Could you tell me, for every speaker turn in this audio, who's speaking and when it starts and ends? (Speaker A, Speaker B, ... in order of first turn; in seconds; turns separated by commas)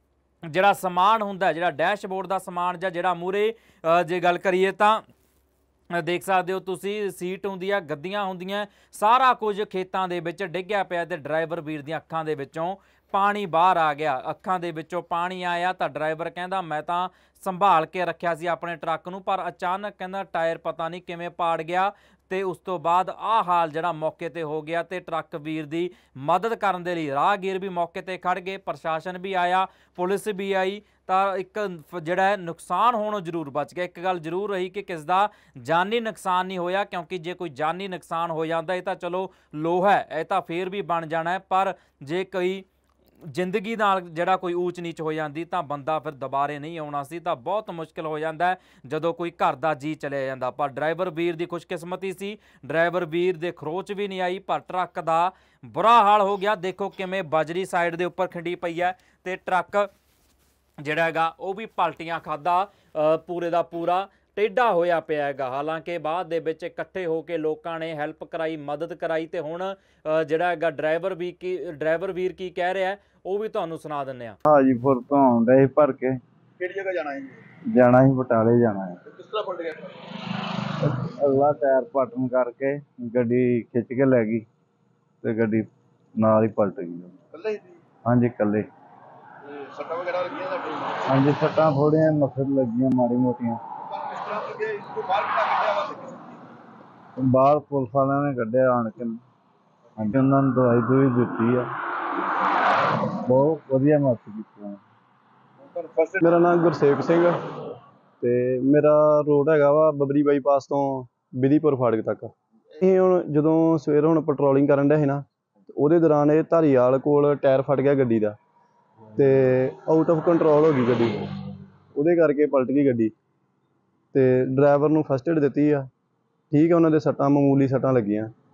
Speaker A: 0.5-5.0, Speaker A: 5.9-42.7, Speaker A: 43.3-59.9, Speaker A: 60.8-74.4, Speaker B: 74.5-76.1, Speaker C: 76.6-77.4, Speaker B: 77.7-79.0, Speaker C: 79.0-80.1, Speaker B: 81.0-84.4, Speaker B: 85.2-85.7, Speaker B: 86.2-87.1, Speaker C: 87.3-87.8, Speaker B: 88.1-88.6, Speaker C: 89.5-91.7, Speaker B: 91.1-93.6, Speaker C: 93.9-96.4, Speaker B: 97.2-99.2, Speaker B: 100.1-101.6, Speaker B: 103.3-104.7, Speaker C: 105.7-106.1, Speaker D: 106.1-107.3, Speaker D: 108.2-115.2, Speaker D: 115.8-118.4, Speaker D: 119.2-123.1, Speaker D: 124.1-125.9, Speaker D: 126.5-128.3